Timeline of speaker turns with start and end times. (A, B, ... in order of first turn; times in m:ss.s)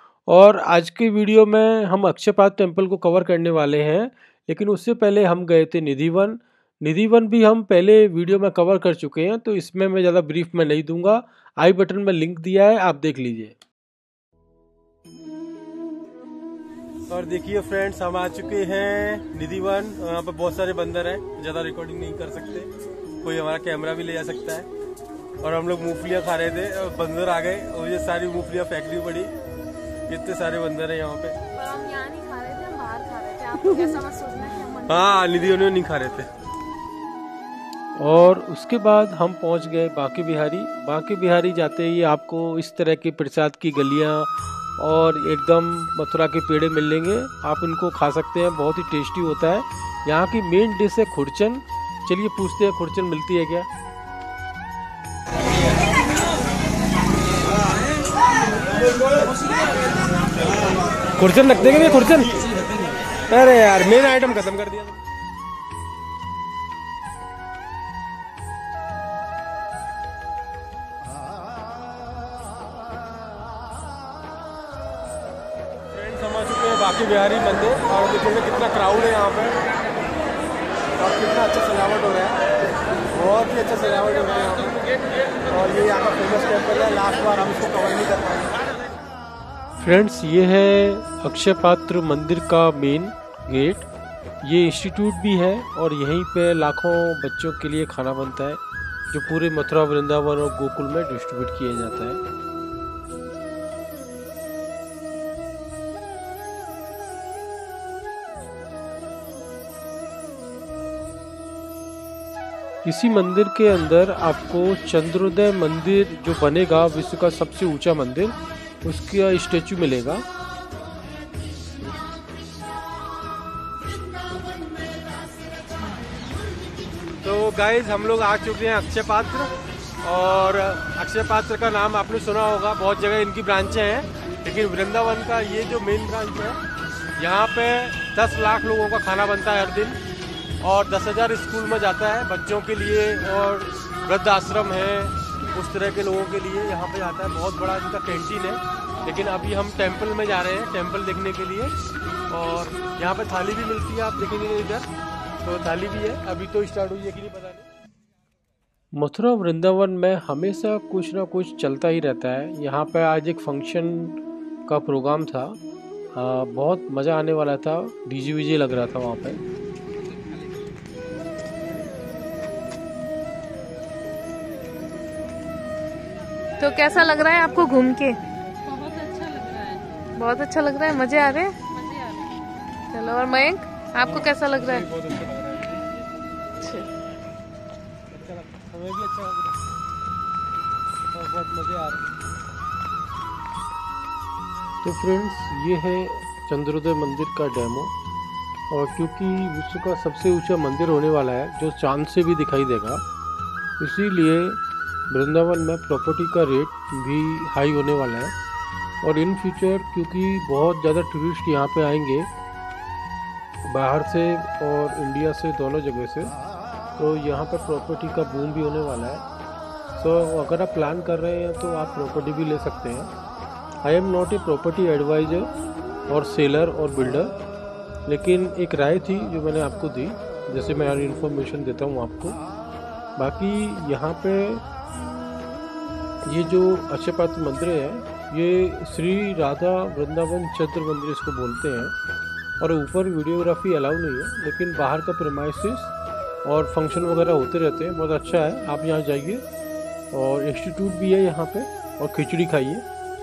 0:00.3-0:13.6 A
0:17.1-0:22.7 A
0:23.2-0:24.7 A
0:25.4-0:29.3 A
0:30.1-0:31.5 A
0:31.5-0:35.6 B
0:34.9-0:36.3 A
0:38.0-0:53.7 A
1:01.2-1:02.4 A
1:03.3-1:05.0 A
1:15.9-1:19.6 A
1:21.0-1:22.4 A
1:23.1-1:28.5 A
1:29.8-1:33.9 A
1:34.4-1:38.6 A
1:39.1-1:42.2 A
1:52.8-2:00.2 A
2:07.2-2:16.6 A
2:17.2-2:20.0 A
2:20.6-2:31.7 A
2:32.3-2:34.9 A
2:35.4-2:37.6 A
2:38.9-2:45.6 A
2:46.1-2:49.4 A
2:56.6-2:58.2 B
2:58.7-3:00.0 C
3:00.1-3:01.8 B
3:01.8-3:02.4 C
3:02.9-3:04.9 B
3:04.1-3:05.8 A
3:06.6-3:06.9 B
3:08.2-3:09.5 A
3:11.1-3:12.1 A
3:14.8-3:17.9 A
3:18.7-3:23.0 A
3:23.8-3:28.3 A
3:29.0-3:32.3 A
3:33.7-3:36.3 A
3:37.0-3:39.2 A
3:40.0-3:43.1 A
3:43.8-3:45.5 A
3:46.1-3:47.3 A
3:48.1-3:52.4 A
3:53.2-3:54.6 A
3:56.3-4:01.9 A
4:02.6-4:09.4 A
4:10.1-4:12.8 A